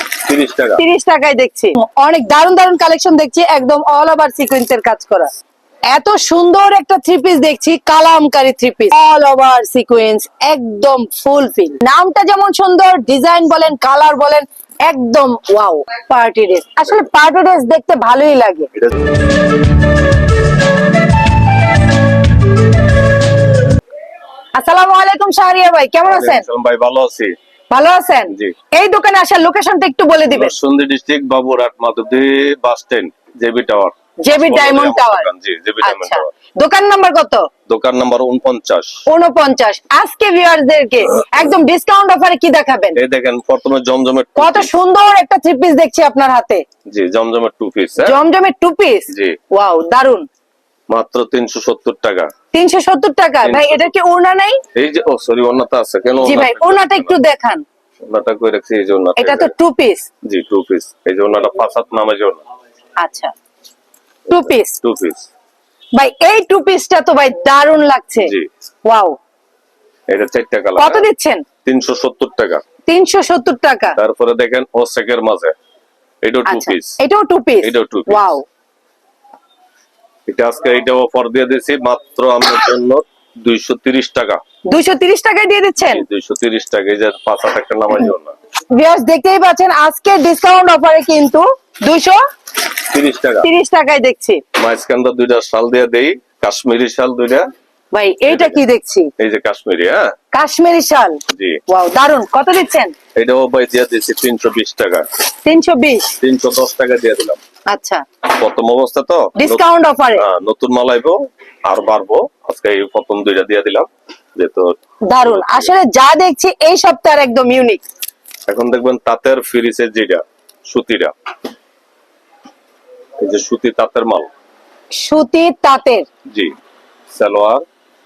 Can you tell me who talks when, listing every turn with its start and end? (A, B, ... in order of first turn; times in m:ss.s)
0:00.2-0:00.8 A
0:00.8-0:05.3 B
0:05.9-0:18.7 B
0:18.7-0:19.1 A
0:24.5-0:26.4 B
0:26.0-0:27.3 A
0:27.7-0:30.5 B
0:30.3-0:36.3 A
0:34.2-0:35.3 B
0:35.8-0:37.5 B
0:37.7-0:39.0 A
0:39.1-0:43.0 B
0:42.9-0:44.7 A
0:44.4-0:46.6 B
0:46.9-0:48.2 A
0:48.0-0:50.2 B
0:49.1-0:49.4 A
0:50.9-0:52.3 A
0:52.5-0:54.6 B
0:53.4-0:53.9 A
0:54.7-0:57.2 A
0:56.2-0:57.6 B
0:58.0-0:59.5 A
0:59.2-1:00.1 B
1:00.2-1:02.4 A
1:03.0-1:03.3 B
1:04.3-1:04.8 B
1:04.3-1:05.3 A
1:05.9-1:08.3 B
1:08.2-1:08.5 A
1:08.8-1:09.2 B
1:10.1-1:11.1 A
1:10.8-1:11.4 B
1:11.6-1:12.6 A
1:12.9-1:14.0 B
1:14.0-1:15.5 A
1:16.2-1:17.0 A
1:16.4-1:18.4 B
1:17.6-1:18.3 A
1:20.3-1:24.4 A
1:24.7-1:26.0 B
1:25.9-1:28.4 A
1:28.7-1:32.2 B
1:32.9-1:33.5 A
1:33.4-1:34.4 B
1:34.6-1:37.5 A
1:37.9-1:39.1 B
1:38.3-1:38.6 A
1:39.2-1:40.1 A
1:40.3-1:42.9 B
1:41.3-1:41.6 A
1:43.2-1:45.1 A
1:45.4-1:46.1 B
1:46.2-1:47.4 A
1:47.7-1:48.0 B
1:48.2-1:49.6 A
1:49.4-1:50.2 B
1:50.1-1:55.7 A
1:55.1-1:57.8 B
1:58.5-2:01.1 A
2:03.2-2:04.3 A
2:04.9-2:06.1 B
2:07.1-2:07.6 A